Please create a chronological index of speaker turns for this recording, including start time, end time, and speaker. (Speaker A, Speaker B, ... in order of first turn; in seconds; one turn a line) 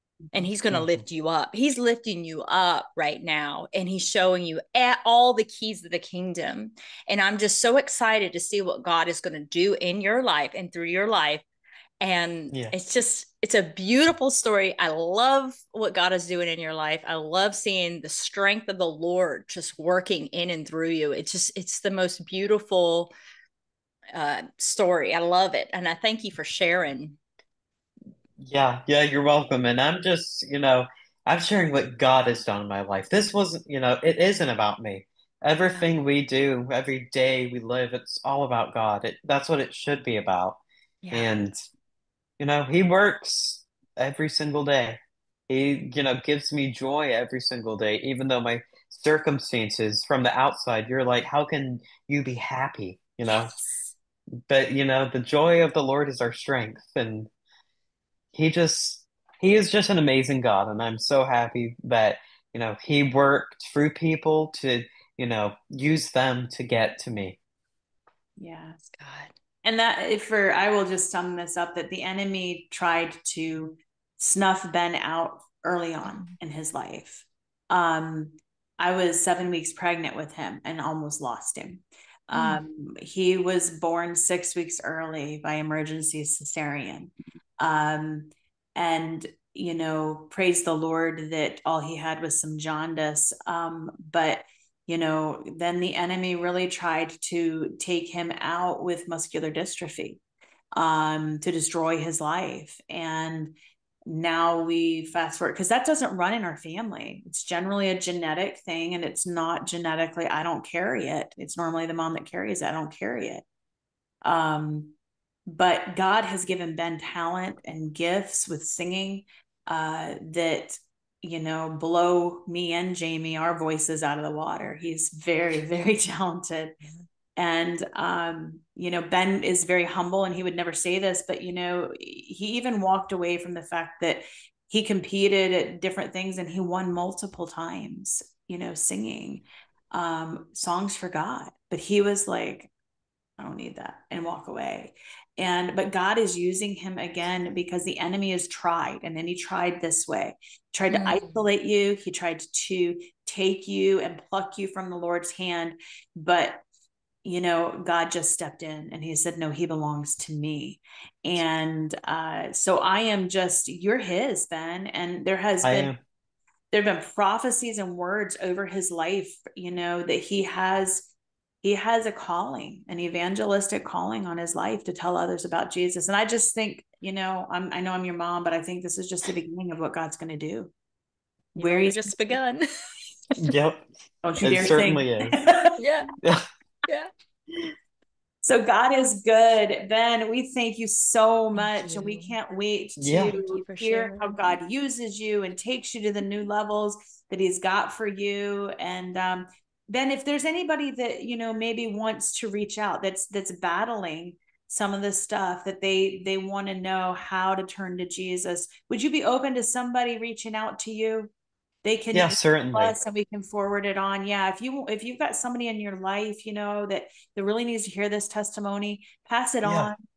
Speaker A: 0.3-11.4
Speaker A: 12.0-23.1
Speaker A: 24.1-27.2
Speaker B: 28.4-40.6
Speaker A: 41.0-41.3
Speaker B: 41.1-41.5
Speaker B: 42.4-53.5
Speaker B: 54.5-57.3
Speaker B: 58.3-67.4
Speaker C: 68.4-68.8
Speaker A: 68.9-69.3
Speaker C: 69.6-100.2
Speaker A: 76.0-76.3
Speaker A: 82.3-82.6
Speaker C: 100.7-113.4
Speaker C: 114.2-114.9
Speaker C: 115.5-126.8
Speaker C: 127.4-142.7
Speaker C: 143.4-156.6
Speaker A: 150.9-151.4
Speaker C: 157.2-165.9
Speaker B: 165.6-166.0
Speaker C: 166.7-180.7
Speaker C: 181.5-182.1
Speaker A: 181.6-182.7
Speaker B: 183.4-183.8
Speaker C: 184.2-185.7
Speaker B: 184.4-185.3
Speaker A: 185.8-186.1
Speaker C: 188.4-211.3
Speaker A: 191.6-192.3
Speaker B: 193.0-193.3
Speaker A: 193.2-194.6
Speaker C: 211.8-220.0
Speaker B: 212.1-212.9
Speaker B: 219.6-219.9